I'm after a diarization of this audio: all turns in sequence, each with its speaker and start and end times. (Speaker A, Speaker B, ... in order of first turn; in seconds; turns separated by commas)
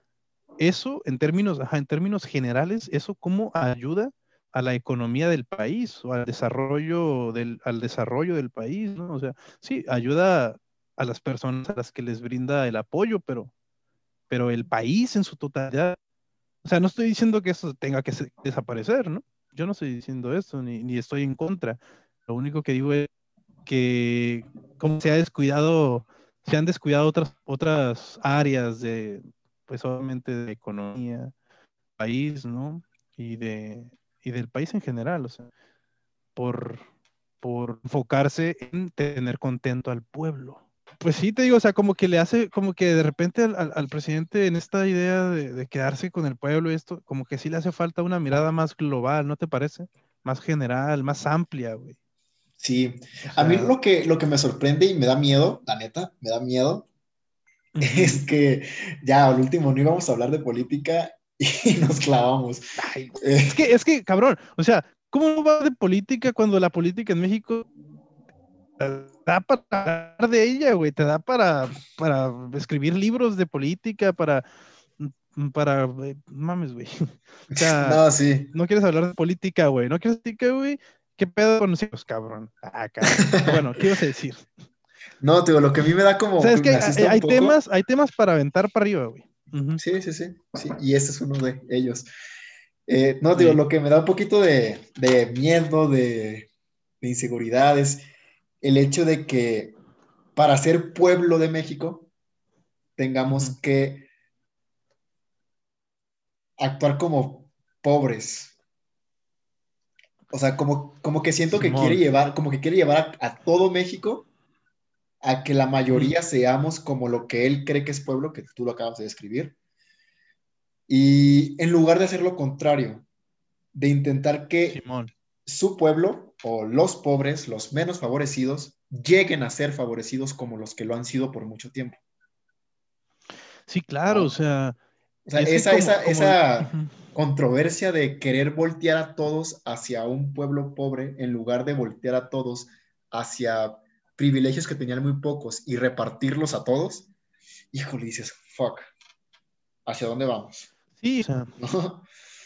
Speaker A: 0.6-13.5, Speaker A: 14.3-16.0, Speaker A: 16.6-23.1, Speaker A: 23.6-31.3, Speaker A: 32.0-35.5, Speaker A: 36.4-36.9, Speaker A: 37.4-52.0, Speaker B: 52.6-56.9, Speaker A: 53.2-53.7, Speaker A: 57.8-58.2, Speaker B: 57.8-62.6, Speaker A: 62.8-67.7, Speaker B: 63.1-63.6, Speaker A: 68.8-74.4, Speaker A: 75.0-84.5, Speaker B: 77.5-78.5, Speaker B: 83.0-83.6, Speaker B: 85.2-87.6, Speaker A: 86.4-89.8, Speaker B: 89.8-92.1, Speaker B: 92.9-96.5, Speaker A: 93.3-93.6, Speaker B: 97.0-98.0, Speaker B: 98.6-99.8, Speaker B: 100.3-102.1, Speaker B: 103.0-104.1, Speaker A: 103.3-103.5, Speaker B: 106.6-108.5, Speaker B: 110.3-114.2, Speaker A: 111.5-112.0, Speaker B: 115.2-119.5, Speaker A: 115.9-116.2, Speaker B: 120.9-123.0, Speaker B: 123.7-124.8, Speaker A: 124.7-125.1, Speaker B: 125.5-132.0, Speaker A: 133.7-134.8, Speaker B: 134.1-134.3, Speaker B: 135.2-147.1, Speaker A: 135.3-136.9, Speaker B: 147.7-148.9, Speaker B: 149.8-150.7, Speaker A: 151.0-151.5, Speaker B: 151.6-152.1